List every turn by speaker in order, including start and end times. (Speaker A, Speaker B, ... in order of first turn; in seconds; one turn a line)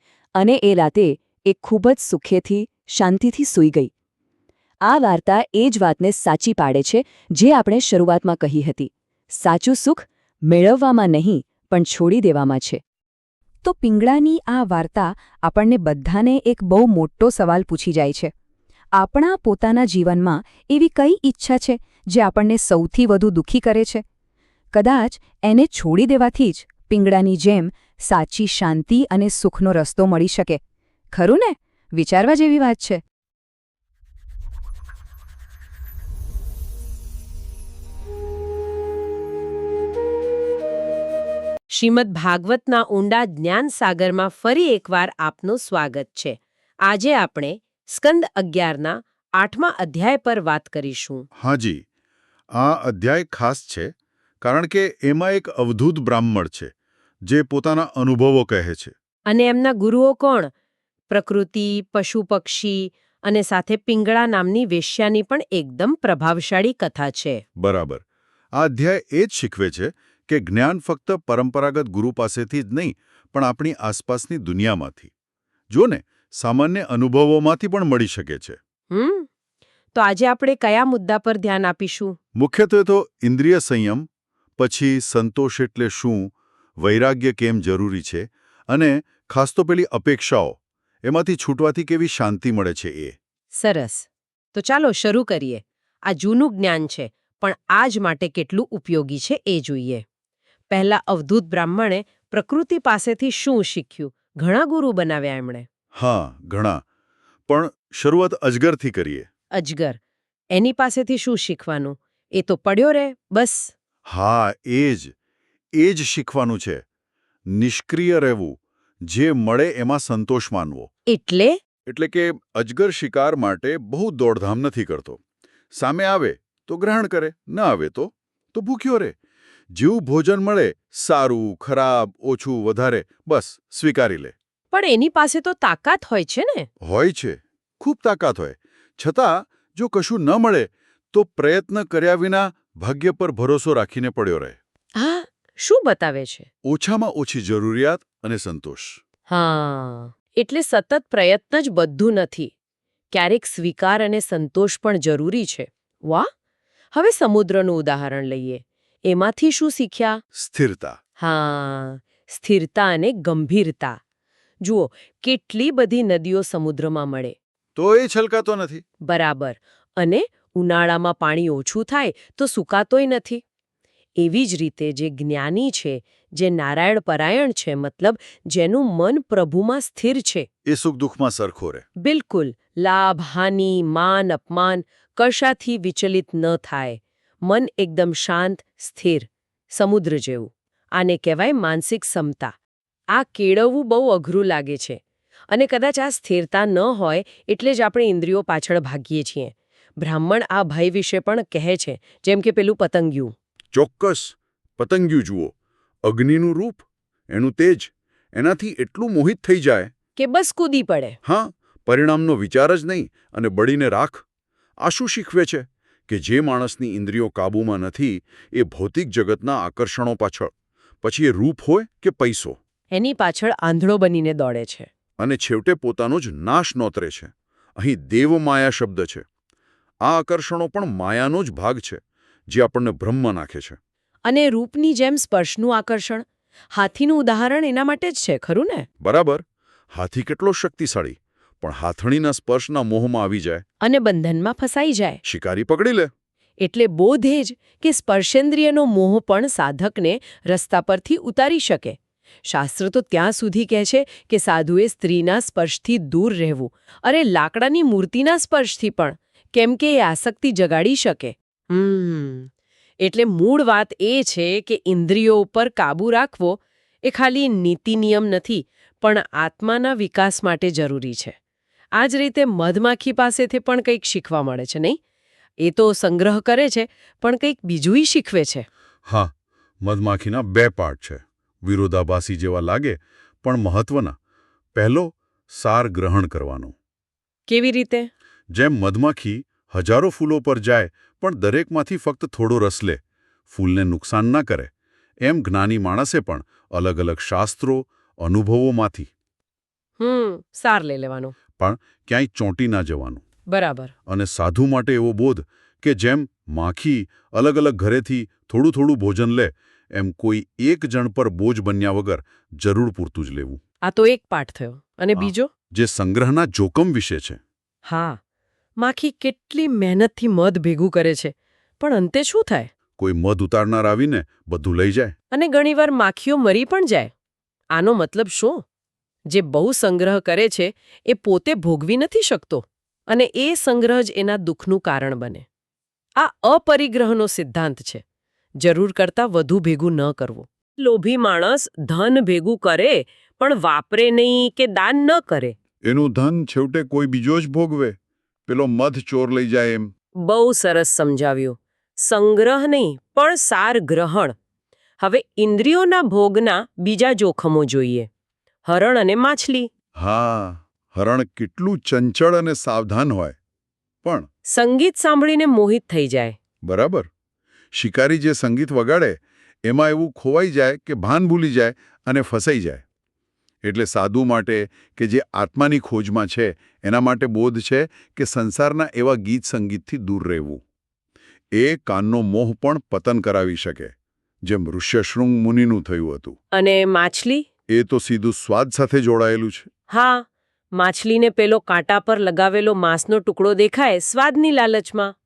Speaker A: 0.4-3.9
Speaker A: 4.9-12.8
Speaker A: 13.6-18.3
Speaker A: 19.0-24.0
Speaker A: 24.7-30.6
Speaker A: 31.1-33.0
Speaker B: 41.7-51.2
Speaker C: 51.4-51.8
Speaker C: 52.6-53.9
Speaker C: 54.4-56.7
Speaker C: 57.3-58.9
Speaker B: 59.3-60.5
Speaker B: 61.1-67.4
Speaker C: 67.6-68.0
Speaker C: 68.6-75.1
Speaker C: 75.7-78.6
Speaker B: 78.9-79.3
Speaker B: 79.9-82.2
Speaker C: 82.4-84.0
Speaker C: 84.6-93.2
Speaker B: 93.6-100.0
Speaker B: 100.7-105.7
Speaker C: 106.0-106.8
Speaker C: 107.5-109.3
Speaker B: 109.5-110.0
Speaker B: 110.5-113.7
Speaker C: 114.1-115.1
Speaker C: 115.8-116.8
Speaker C: 117.5-120.9
Speaker B: 121.1-121.6
Speaker C: 121.9-125.2
Speaker C: 125.7-129.1
Speaker C: 129.7-134.3
Speaker B: 134.7-136.7
Speaker C: 136.8-144.6
Speaker B: 145.0-146.5
Speaker C: 146.6-149.0
Speaker B: 149.3-152.5
Speaker B: 153.1-156.3
Speaker B: 156.9-160.2
Speaker C: 160.3-161.0
Speaker B: 161.2-164.0
Speaker B: 164.6-167.3
Speaker C: 167.8-168.8
Speaker B: 169.0-173.4
Speaker B: 174.2-180.5
Speaker C: 180.7-181.8
Speaker B: 182.0-192.5
Speaker B: 193.1-195.0
Speaker B: 195.5-203.3
Speaker C: 203.7-205.5
Speaker C: 206.0-209.9
Speaker B: 210.2-211.2
Speaker C: 211.2-214.2
Speaker C: 214.8-220.5
Speaker C: 221.0-222.6
Speaker B: 222.9-224.9
Speaker C: 225.2-229.2
Speaker C: 230.0-233.8
Speaker B: 234.2-238.9
Speaker C: 239.0-243.6
Speaker B: 243.8-245.2
Speaker C: 245.2-246.1
Speaker B: 246.6-262.5
Speaker B: 263.0-271.4
Speaker B: 272.0-275.0
Speaker B: 275.6-278.6
Speaker C: 279.1-279.3
Speaker C: 279.8-284.1
Speaker C: 284.8-286.8
Speaker B: 287.5-288.1
Speaker C: 288.5-293.0
Speaker C: 293.5-294.7
Speaker C: 295.2-299.1
Speaker B: 300.0-301.4
Speaker C: 301.6-303.2
Speaker B: 303.5-303.9
Speaker C: 304.1-313.6
Speaker B: 313.8-315.5
Speaker C: 315.2-317.4
Speaker B: 317.9-318.2
Speaker B: 318.8-322.7
Speaker C: 323.0-325.1
Speaker B: 325.3-327.1
Speaker B: 327.7-328.6
Speaker B: 329.3-335.4
Speaker B: 336.2-338.0
Speaker B: 338.6-345.5
Speaker C: 345.8-349.9
Speaker B: 350.2-354.4
Speaker B: 355.0-358.1
Speaker B: 358.6-359.7
Speaker C: 360.0-363.4
Speaker B: 364.5-366.4
Speaker C: 366.6-367.1
Speaker C: 367.7-372.8
Speaker C: 373.6-380.6
Speaker C: 381.5-383.9
Speaker C: 384.5-386.4
Speaker B: 386.5-387.5
Speaker C: 387.7-389.7
Speaker B: 389.9-395.1